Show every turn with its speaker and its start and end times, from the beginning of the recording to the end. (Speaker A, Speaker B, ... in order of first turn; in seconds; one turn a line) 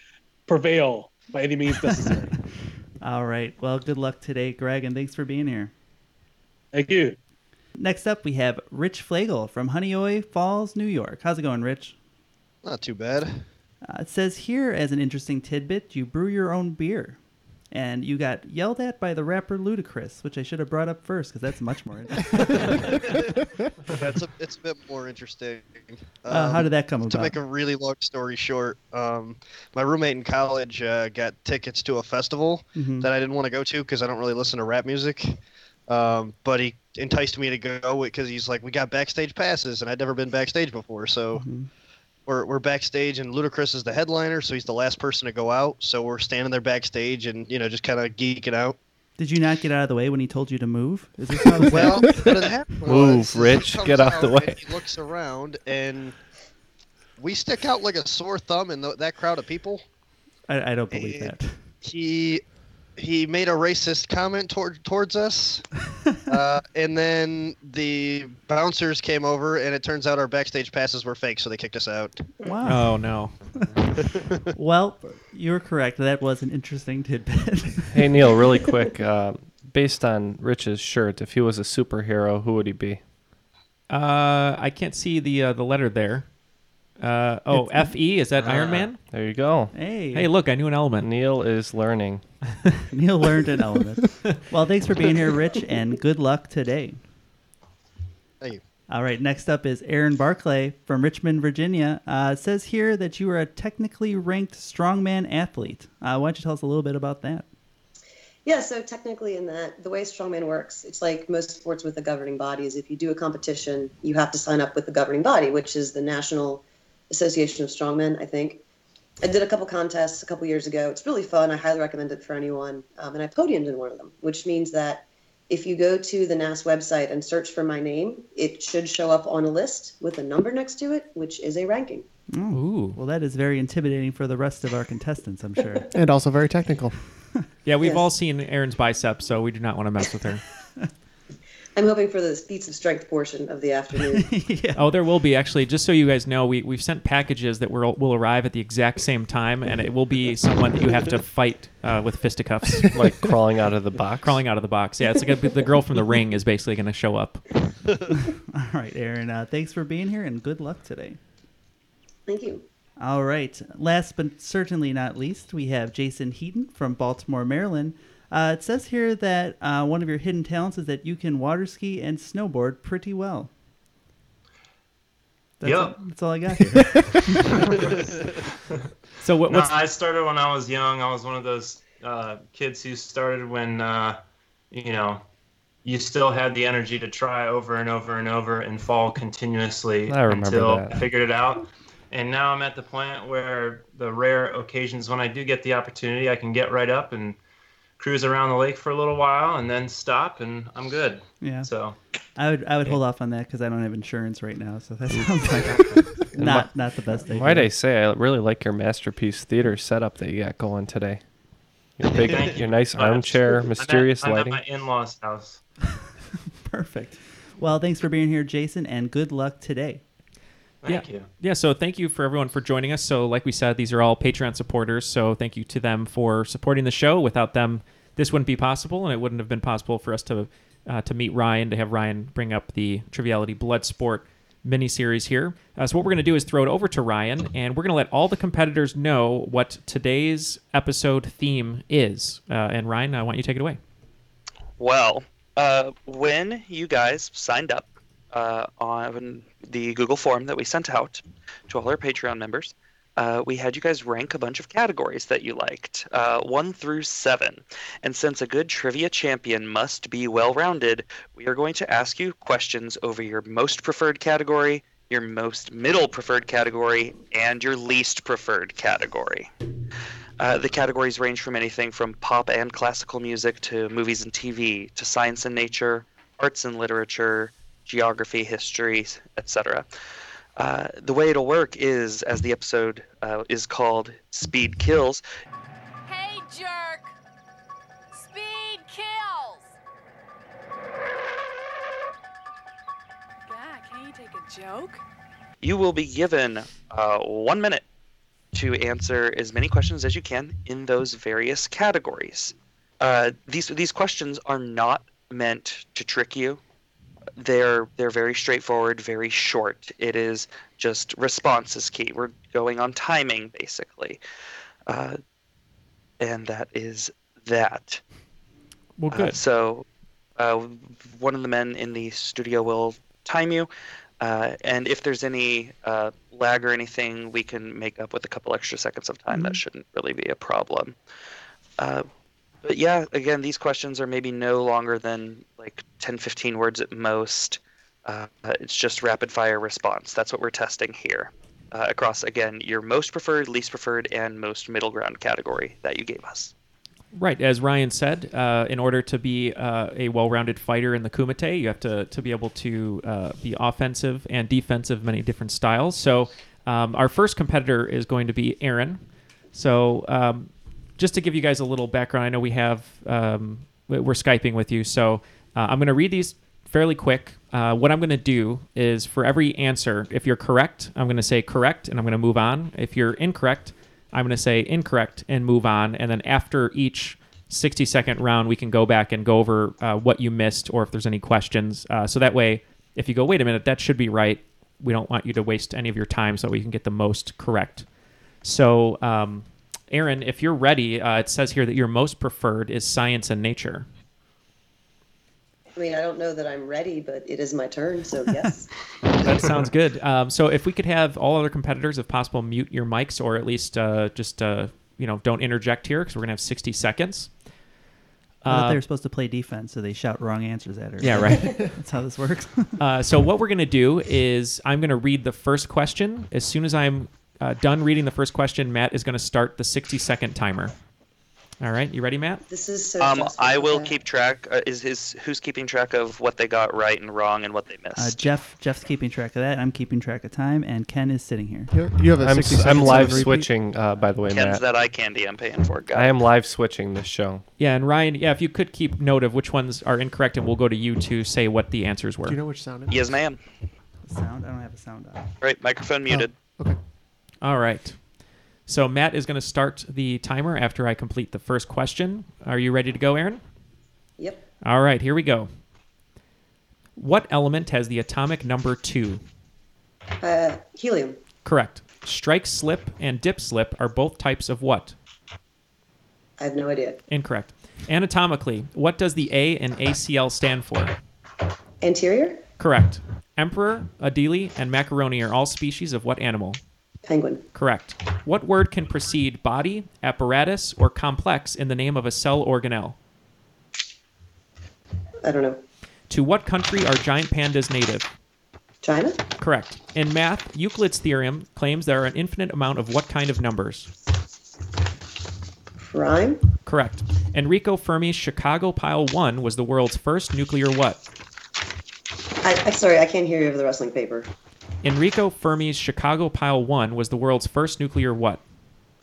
Speaker A: 0.5-2.4
Speaker B: 3.0-5.7
Speaker A: 6.7-7.2
Speaker B: 7.8-12.0
Speaker C: 12.6-13.4
Speaker B: 13.8-17.2
Speaker B: 17.7-23.2
Speaker C: 23.9-35.4
Speaker B: 26.3-27.4
Speaker B: 32.8-33.1
Speaker C: 35.9-41.4
Speaker B: 41.4-41.7
Speaker C: 42.3-48.8
Speaker B: 49.2-52.3
Speaker C: 51.7-56.1
Speaker D: 52.8-54.6
Speaker C: 57.2-59.8
Speaker B: 60.5-61.6
Speaker C: 60.9-62.4
Speaker C: 63.0-65.7
Speaker C: 66.3-72.3
Speaker B: 72.4-73.8
Speaker E: 72.6-73.3
Speaker B: 74.5-78.1
Speaker D: 77.9-83.0
Speaker E: 83.9-86.3
Speaker E: 87.0-89.0
Speaker B: 87.5-87.9
Speaker F: 88.4-88.9
Speaker D: 89.0-89.8
Speaker B: 89.7-90.3
Speaker E: 90.1-91.1
Speaker D: 91.0-92.2
Speaker B: 92.9-97.0
Speaker B: 98.9-107.5
Speaker G: 108.5-118.6
Speaker G: 119.2-132.1
Speaker B: 132.3-135.9
Speaker E: 132.5-133.0
Speaker H: 135.9-137.0
Speaker E: 137.7-140.4
Speaker G: 137.8-138.1
Speaker G: 141.8-144.3
Speaker B: 144.2-144.8
Speaker E: 144.8-152.9
Speaker D: 152.9-154.4
Speaker E: 154.2-157.4
Speaker B: 158.1-161.2
Speaker G: 162.3-162.7
Speaker B: 163.0-173.5
Speaker B: 175.6-177.9
Speaker F: 175.6-176.0
Speaker F: 177.7-177.9
Speaker E: 179.2-179.7
Speaker F: 179.5-184.2
Speaker F: 184.7-185.2
Speaker F: 185.8-197.4
Speaker D: 190.1-191.1
Speaker F: 198.0-202.0
Speaker B: 201.4-201.7
Speaker B: 202.4-207.7
Speaker D: 206.3-206.7
Speaker D: 207.3-211.2
Speaker D: 212.0-214.6
Speaker F: 212.2-215.6
Speaker B: 216.7-220.0
Speaker F: 220.8-221.3
Speaker E: 220.9-243.8
Speaker I: 244.8-269.5
Speaker I: 270.4-279.9
Speaker I: 280.6-285.2
Speaker J: 286.1-287.1
Speaker J: 288.1-289.7
Speaker J: 293.5-295.0
Speaker I: 295.6-297.8
Speaker I: 298.5-306.6
Speaker I: 307.4-314.2
Speaker I: 314.9-315.2
Speaker I: 316.2-318.0
Speaker E: 319.0-319.3
Speaker I: 319.1-319.9
Speaker I: 320.4-323.7
Speaker I: 324.2-331.0
Speaker I: 331.8-332.1
Speaker I: 332.6-346.5
Speaker E: 347.1-359.0
Speaker E: 359.5-387.9
Speaker E: 388.4-393.9
Speaker G: 395.8-398.7
Speaker E: 399.2-407.3
Speaker E: 408.4-408.8
Speaker B: 408.5-412.8
Speaker E: 411.0-411.7
Speaker E: 412.8-420.7
Speaker E: 421.6-422.4
Speaker G: 422.5-424.0
Speaker I: 423.0-428.3
Speaker B: 428.0-431.7
Speaker H: 431.7-433.5
Speaker D: 432.2-434.6
Speaker B: 432.7-433.4
Speaker I: 434.3-436.2
Speaker D: 435.9-437.4
Speaker E: 437.6-442.4
Speaker H: 442.2-443.0
Speaker I: 442.9-443.4
Speaker B: 444.0-445.3
Speaker I: 445.4-446.3
Speaker H: 446.1-446.8
Speaker E: 447.4-448.0
Speaker E: 448.7-453.4
Speaker E: 454.6-455.5
Speaker E: 457.0-459.2
Speaker G: 460.2-461.2
Speaker E: 461.4-464.9
Speaker G: 466.4-467.0
Speaker E: 467.1-470.9
Speaker G: 471.8-472.4
Speaker E: 472.6-476.6
Speaker G: 477.1-477.4
Speaker E: 477.6-483.0
Speaker G: 485.2-485.6
Speaker E: 486.1-488.1
Speaker G: 488.8-489.2
Speaker E: 489.4-493.9
Speaker G: 495.8-496.4
Speaker E: 496.7-501.0
Speaker G: 502.4-504.3
Speaker E: 504.8-508.4